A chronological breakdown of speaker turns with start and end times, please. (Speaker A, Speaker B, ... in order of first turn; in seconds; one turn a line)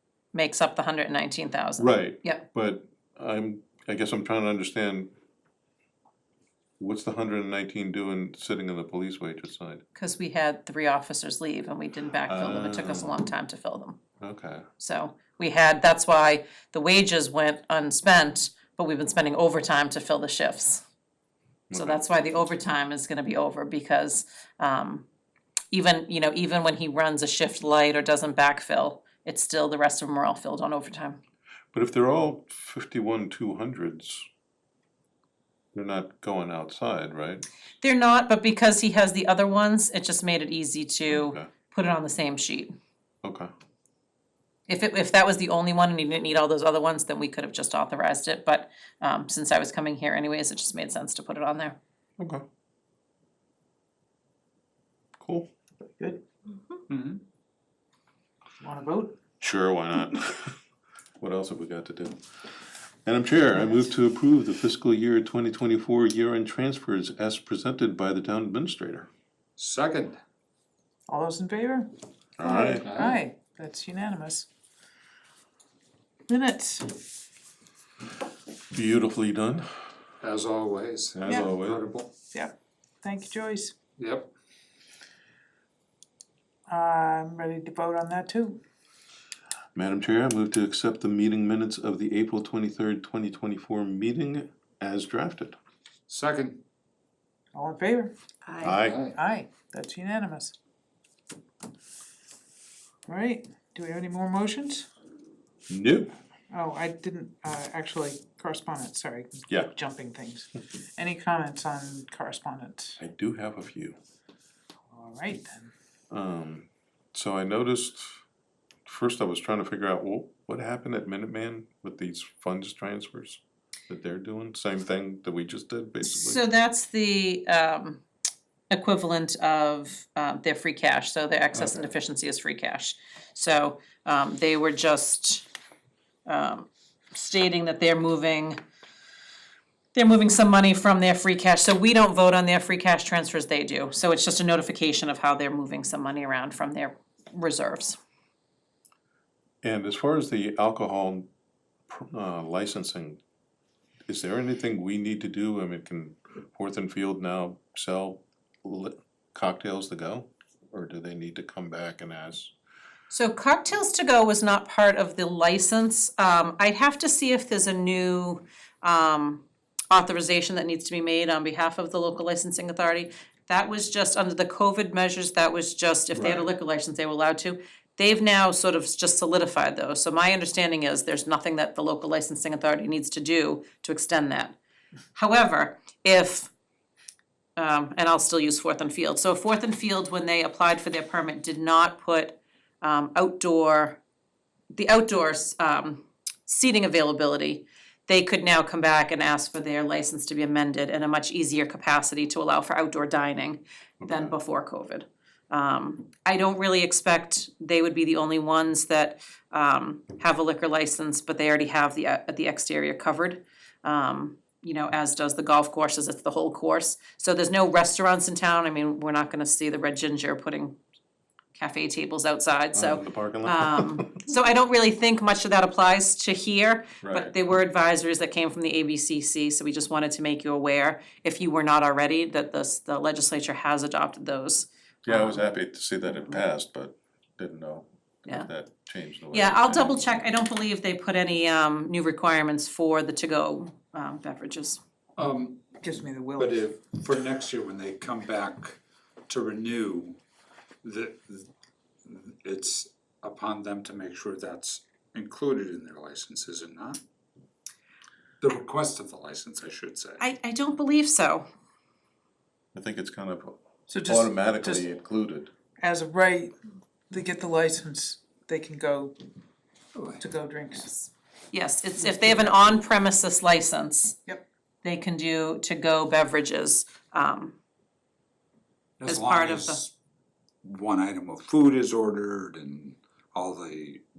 Speaker A: 0.3-2.4
Speaker B: 1.8-5.1
Speaker B: 6.8-9.8
Speaker A: 9.9-14.0
Speaker B: 12.2-13.2
Speaker B: 14.2-14.7
Speaker A: 14.8-20.8
Speaker B: 21.7-22.1
Speaker A: 21.7-25.1
Speaker A: 25.7-31.2
Speaker B: 31.7-34.3
Speaker B: 35.7-37.5
Speaker A: 37.8-42.7
Speaker B: 41.1-41.5
Speaker B: 43.2-43.5
Speaker A: 44.7-51.8
Speaker B: 52.2-52.4
Speaker B: 55.2-55.5
Speaker C: 55.9-56.2
Speaker D: 56.9-57.2
Speaker C: 58.6-59.2
Speaker B: 59.4-60.6
Speaker B: 61.2-62.2
Speaker B: 63.0-69.1
Speaker D: 69.6-70.2
Speaker C: 71.1-74.5
Speaker B: 72.4-72.9
Speaker D: 72.7-73.2
Speaker C: 76.3-77.0
Speaker B: 78.7-79.7
Speaker D: 80.2-82.1
Speaker B: 81.1-81.9
Speaker C: 81.3-81.5
Speaker C: 82.3-83.7
Speaker D: 84.0-84.3
Speaker C: 86.7-88.6
Speaker B: 89.7-95.6
Speaker D: 96.1-96.6
Speaker C: 97.5-98.1
Speaker A: 98.4-98.8
Speaker B: 98.6-99.0
Speaker D: 98.8-99.2
Speaker C: 99.0-100.5
Speaker C: 103.1-104.9
Speaker B: 105.7-106.1
Speaker C: 106.5-113.0
Speaker B: 113.0-114.0
Speaker C: 114.9-115.7
Speaker B: 116.1-118.2
Speaker B: 118.8-126.4
Speaker A: 126.0-128.0
Speaker A: 128.7-135.5
Speaker A: 136.2-138.6
Speaker A: 139.9-148.0
Speaker B: 149.6-151.3
Speaker B: 151.9-153.2
Speaker B: 154.1-162.5
Speaker A: 163.1-184.6
Speaker B: 176.1-176.5
Speaker A: 185.1-186.5
Speaker A: 187.6-194.0
Speaker A: 194.7-220.8
Speaker B: 204.0-204.3
Speaker A: 221.5-235.4
Speaker B: 222.7-224.2
Speaker B: 227.0-227.3
Speaker B: 235.0-240.2
Speaker A: 239.3-244.8
Speaker D: 245.2-245.8
Speaker C: 245.8-246.6
Speaker D: 246.3-250.2
Speaker D: 250.8-251.5
Speaker D: 252.0-257.0
Speaker D: 258.4-260.2
Speaker A: 260.2-261.5
Speaker B: 262.7-265.5
Speaker C: 263.9-264.9
Speaker C: 265.8-266.5
Speaker C: 267.1-269.1
Speaker D: 269.9-270.2
Speaker C: 270.2-271.0
Speaker A: 271.5-274.2
Speaker C: 272.0-272.8
Speaker A: 274.8-277.5
Speaker D: 279.0-279.9
Speaker A: 279.0-279.8
Speaker D: 280.6-284.0